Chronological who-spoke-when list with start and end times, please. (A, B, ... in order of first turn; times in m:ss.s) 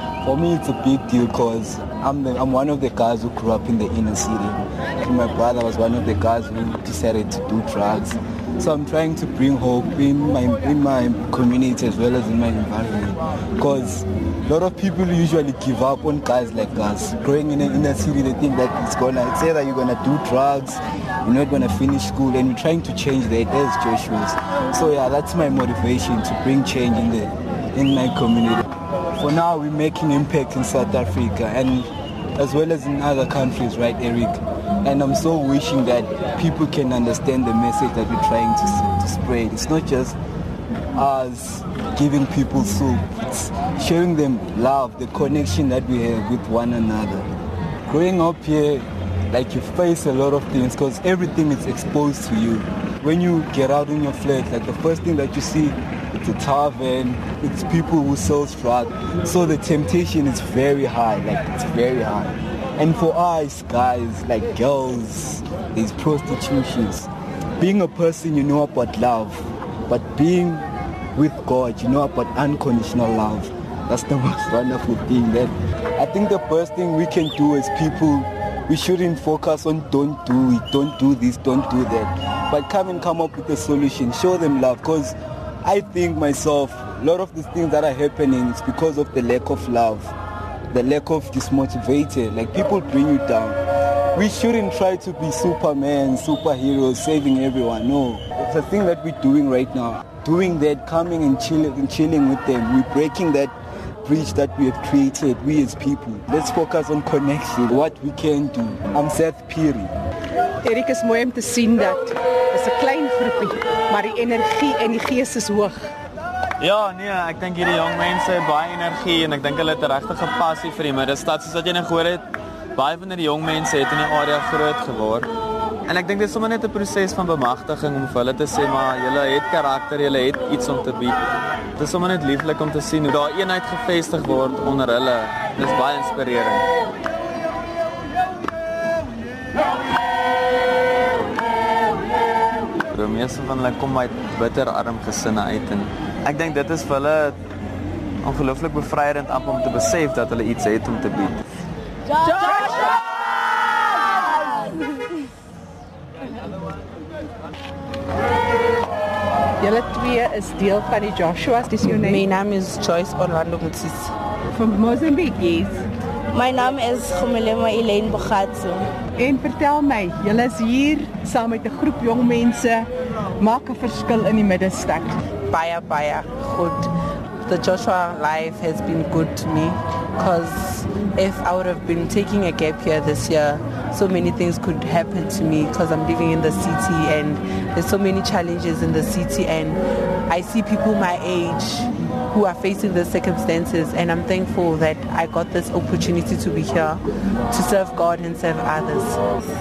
0:00.2-0:28.6 A
0:29.2-0:40.2 A
0:41.0-0:47.3 A
0:47.9-1:30.1 A
1:30.7-1:33.6 A
1:34.1-1:50.0 A
1:50.6-1:55.9 B
1:56.6-2:02.2 C
2:02.8-2:05.3 C
2:05.9-2:11.2 C
2:11.8-2:16.7 C
2:22.9-2:27.4 C
2:28.2-2:31.4 C
2:32.2-2:32.8 D
2:39.6-2:42.2 B
2:41.9-2:44.1 E
2:44.5-2:45.8 B
2:46.3-2:48.9 D
2:49.2-2:55.2 B
2:55.5-2:56.9 E
2:57.4-3:19.2 E